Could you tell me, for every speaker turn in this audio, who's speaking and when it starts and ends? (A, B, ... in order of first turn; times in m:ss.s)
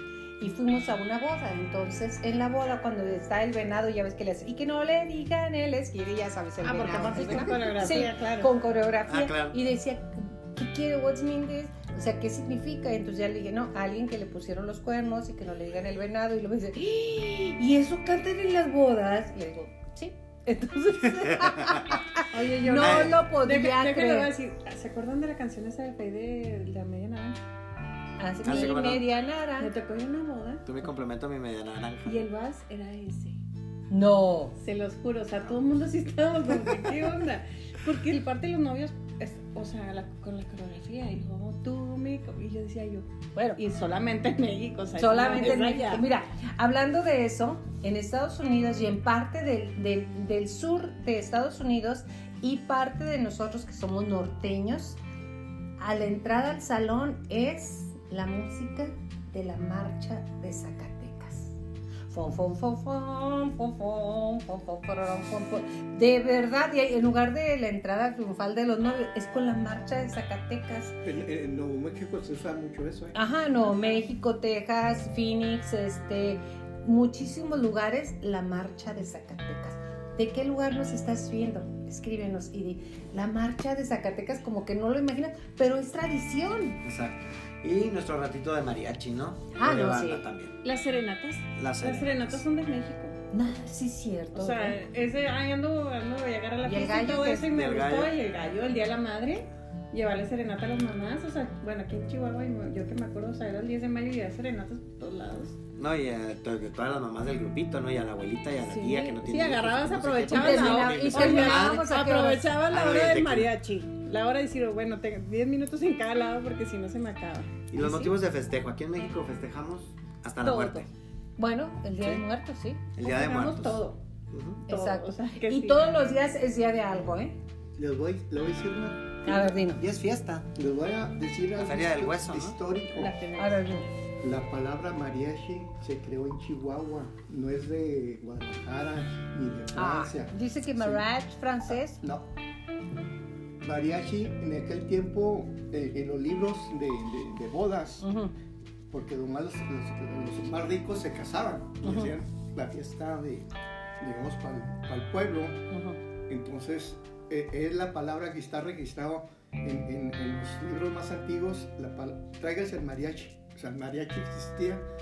0:00.4-0:24.3 A
0:06.6-0:08.5 B
0:09.1-0:09.6 C
0:21.0-0:22.0 C
0:22.3-0:27.4 B
0:22.8-0:23.2 C
0:28.2-0:29.7 A
0:28.4-0:29.0 C
0:28.5-0:28.8 B
0:29.6-0:30.6 B
0:30.6-0:32.2 C
0:32.0-0:33.4 B
0:33.9-0:34.6 A
0:34.6-0:46.0 B
0:45.0-0:55.0 A
0:55.8-1:01.6 A
1:02.1-1:11.0 A
1:11.0-1:13.2 D
1:13.1-1:26.8 A
1:26.8-1:30.6 C
1:29.6-1:30.2 A
1:30.6-1:33.2 B
1:31.6-1:32.4 C
1:33.3-1:34.8 A
1:34.3-1:45.6 B
1:36.6-1:37.5 A
1:37.5-1:38.1 C
1:45.8-1:51.9 C
1:48.6-1:57.6 B
1:50.3-1:52.5 A
1:52.6-1:53.5 C
1:57.7-2:00.9 C
1:57.8-1:58.1 A
2:00.4-2:00.8 B
2:01.4-2:02.8 A
2:03.0-2:03.8 C
2:03.0-2:04.0 B
2:04.3-2:04.6 C
2:04.7-2:05.8 B
2:04.7-2:07.4 A
2:07.8-2:09.3 D
2:09.2-2:09.8 A
2:09.3-2:10.5 C
2:10.5-2:13.2 D
2:11.6-2:12.6 C
2:12.8-2:13.8 B
2:13.4-2:13.9 A
2:14.2-2:21.0 D
2:19.7-2:22.0 A
2:21.7-2:22.3 D
2:23.6-2:28.1 D
2:28.0-2:28.3 A
2:28.9-2:35.6 D
2:31.8-2:32.1 A
2:35.7-2:36.0 A
2:36.3-2:44.8 D